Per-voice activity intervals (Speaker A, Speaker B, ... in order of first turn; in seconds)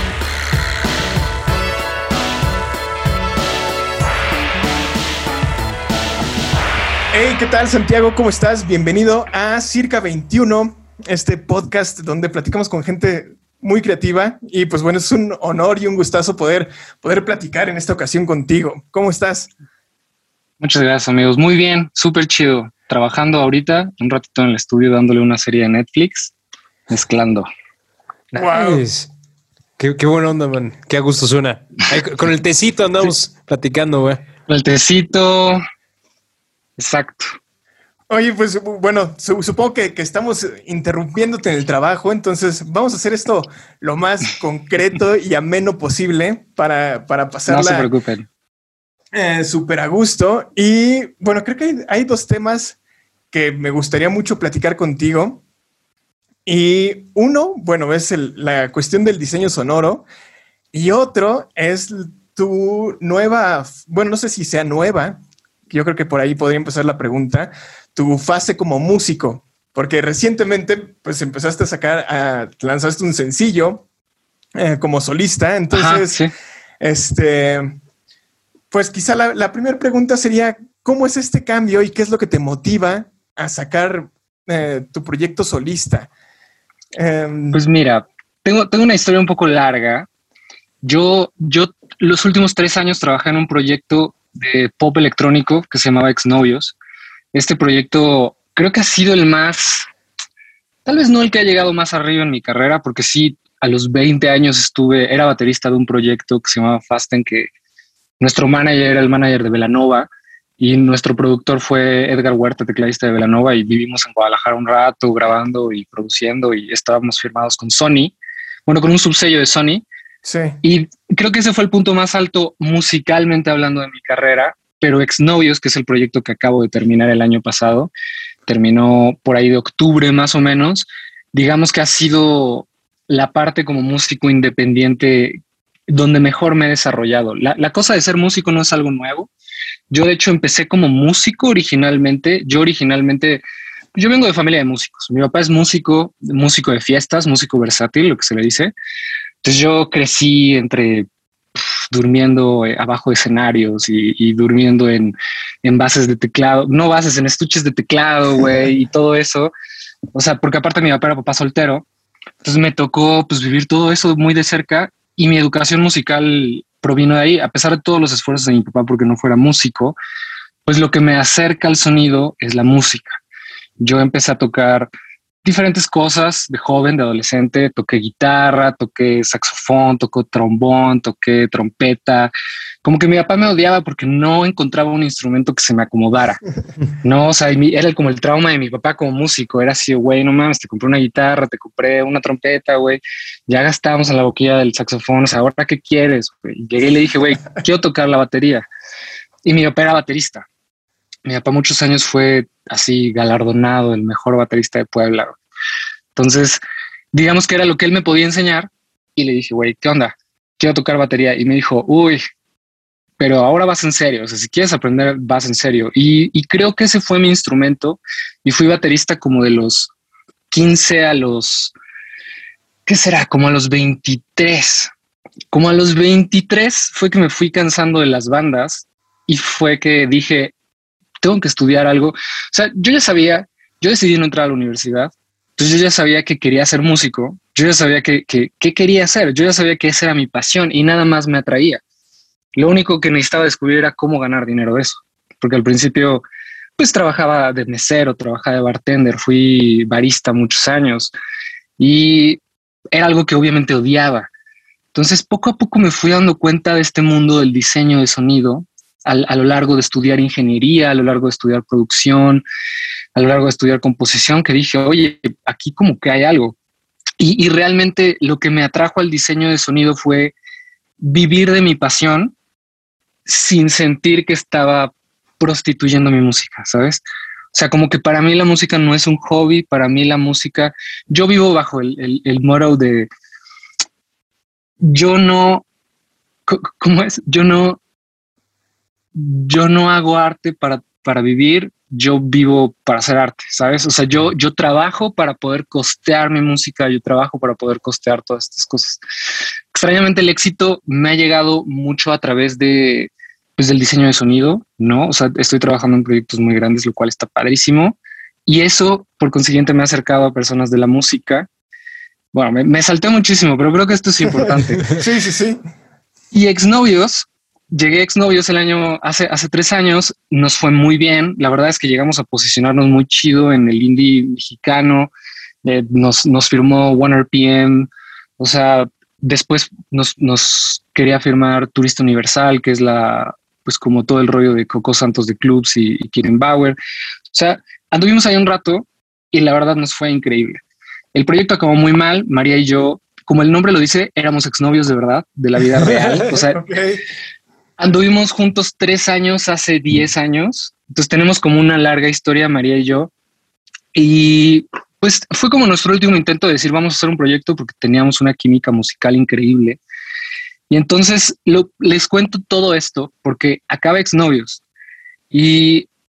Speaker A: 7.1-19.5, 28.3-28.8, 38.1-47.9, 49.1-52.8, 53.3-55.4, 56.5-60.0, 60.7-73.8, 74.5-76.2, 76.8-77.8, 78.7-86.1, 86.9-87.6, 120.2-120.6, 314.3-315.6, 345.8-347.0
Speaker B: 20.6-26.3, 26.9-27.5, 34.5-35.6, 36.8-37.4, 47.5-48.3, 75.7-76.3, 87.5-90.1, 90.8-96.8, 97.3-99.9, 100.8-107.5, 108.2-118.1, 118.7-119.8, 120.6-127.9, 128.5-135.4, 135.9-139.3, 139.9-143.4, 143.9-148.7, 149.4-159.5, 160.1-161.8, 162.4-169.9, 170.7-173.2, 173.8-174.9, 175.4-182.3, 182.8-186.4, 187.0-198.7, 199.4-200.4, 201.2-205.4, 206.1-206.6, 207.1-212.2, 213.2-219.9, 220.5-221.7, 222.8-224.9, 225.5-230.5, 231.2-241.8, 242.5-246.2, 246.8-251.1, 251.8-252.4, 252.9-254.3, 254.9-262.4, 263.1-266.6, 267.2-270.3, 271.0-272.3, 273.2-283.1, 284.8-285.6, 286.5-287.8, 289.1-299.0, 299.7-311.5, 312.3-315.0, 316.3-325.1, 325.6-336.8, 337.3-340.6, 341.1-346.6, 347.8-353.1, 353.9-359.8, 360.7-364.6, 365.3-365.9
Speaker C: 28.3-29.1, 29.8-34.2